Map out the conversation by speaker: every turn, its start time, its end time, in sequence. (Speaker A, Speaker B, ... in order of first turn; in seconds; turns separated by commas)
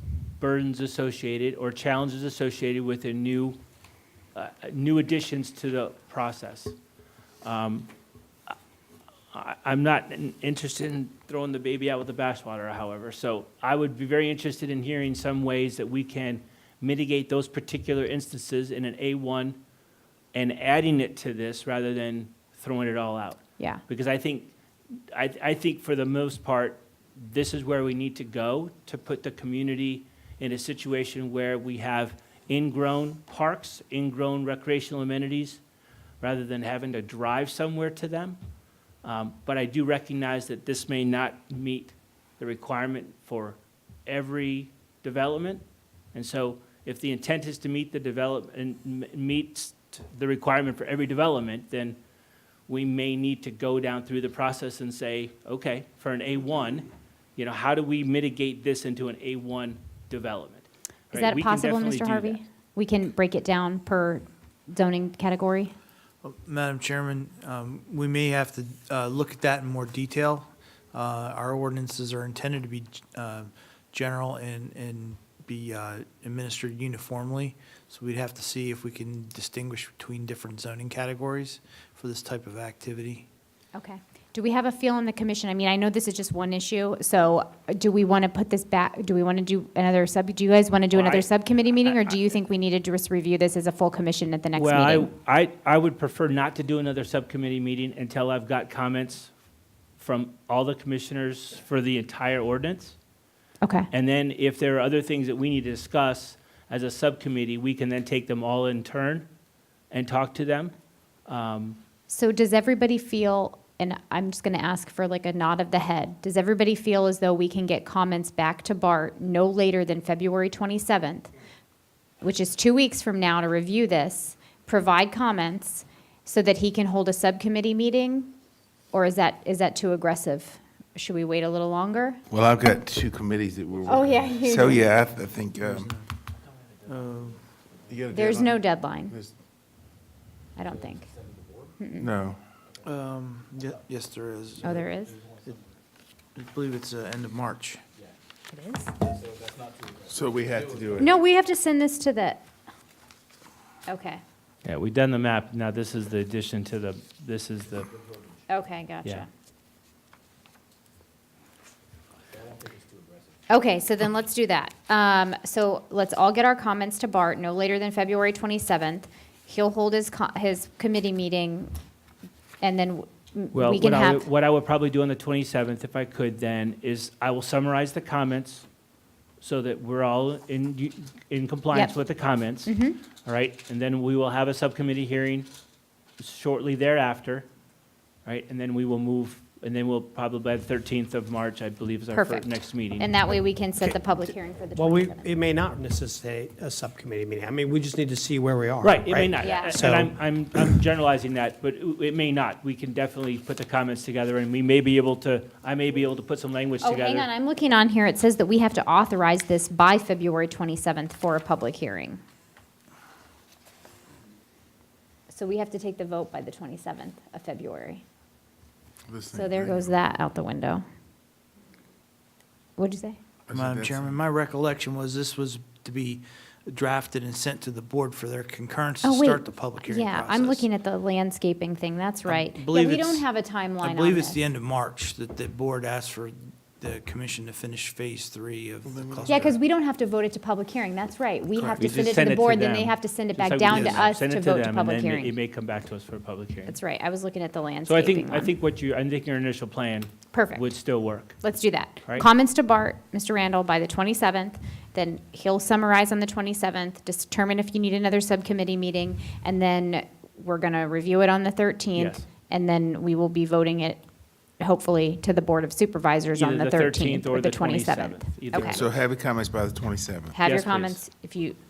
Speaker A: 0.4-3.6, Speaker A: 4.3-6.8, Speaker A: 7.4-7.9, Speaker A: 9.3-19.6, Speaker A: 20.3-35.6, Speaker A: 36.2-38.4, Speaker A: 39.0-45.6, Speaker A: 46.1-52.0, Speaker A: 52.7-62.4, Speaker B: 61.1-65.7, Speaker C: 66.2-83.3, Speaker B: 83.8-95.1, Speaker A: 90.9-91.3, Speaker A: 91.8-92.2, Speaker A: 94.5-99.3, Speaker A: 100.0-103.0, Speaker B: 103.6-103.9, Speaker A: 103.9-109.3, Speaker A: 109.9-110.7, Speaker A: 111.3-111.8, Speaker B: 112.1-121.3, Speaker B: 122.2-128.3, Speaker B: 128.9-132.2, Speaker D: 132.3-135.9, Speaker B: 133.9-134.8, Speaker C: 135.6-136.1, Speaker C: 136.9-137.4, Speaker D: 137.9-139.3, Speaker B: 138.1-139.1, Speaker B: 140.6-141.1, Speaker B: 141.8-142.1, Speaker D: 142.0-142.4, Speaker C: 142.8-144.8, Speaker B: 144.6-145.2, Speaker C: 146.3-147.8, Speaker B: 148.5-148.9, Speaker D: 150.0-151.1, Speaker B: 151.0-152.4, Speaker B: 153.9-154.2, Speaker A: 154.6-157.9, Speaker B: 158.5-159.3, Speaker B: 163.5-171.7, Speaker B: 172.6-174.2, Speaker A: 173.5-178.7, Speaker A: 179.4-185.5, Speaker B: 182.7-183.0, Speaker A: 186.2-187.5, Speaker A: 188.2-193.1, Speaker B: 192.1-192.5, Speaker B: 193.0-195.3, Speaker E: 194.8-200.8, Speaker A: 198.8-207.3, Speaker B: 199.4-199.8, Speaker B: 206.8-212.2, Speaker B: 215.3-218.0, Speaker D: 219.1-219.9, Speaker B: 219.3-220.8, Speaker B: 222.8-223.2, Speaker D: 223.5-224.1, Speaker C: 223.5-230.7, Speaker B: 229.0-234.4, Speaker C: 232.3-233.2, Speaker C: 233.8-239.5, Speaker D: 238.9-239.5, Speaker B: 239.3-245.3, Speaker C: 241.6-242.2, Speaker A: 241.8-246.8, Speaker C: 243.7-244.0, Speaker B: 246.7-248.5, Speaker A: 247.8-251.4, Speaker B: 250.3-250.6, Speaker B: 251.4-264.0, Speaker A: 261.9-262.2, Speaker B: 264.6-268.8, Speaker A: 266.3-268.9, Speaker D: 268.6-270.4, Speaker B: 270.3-271.6, Speaker A: 270.4-271.0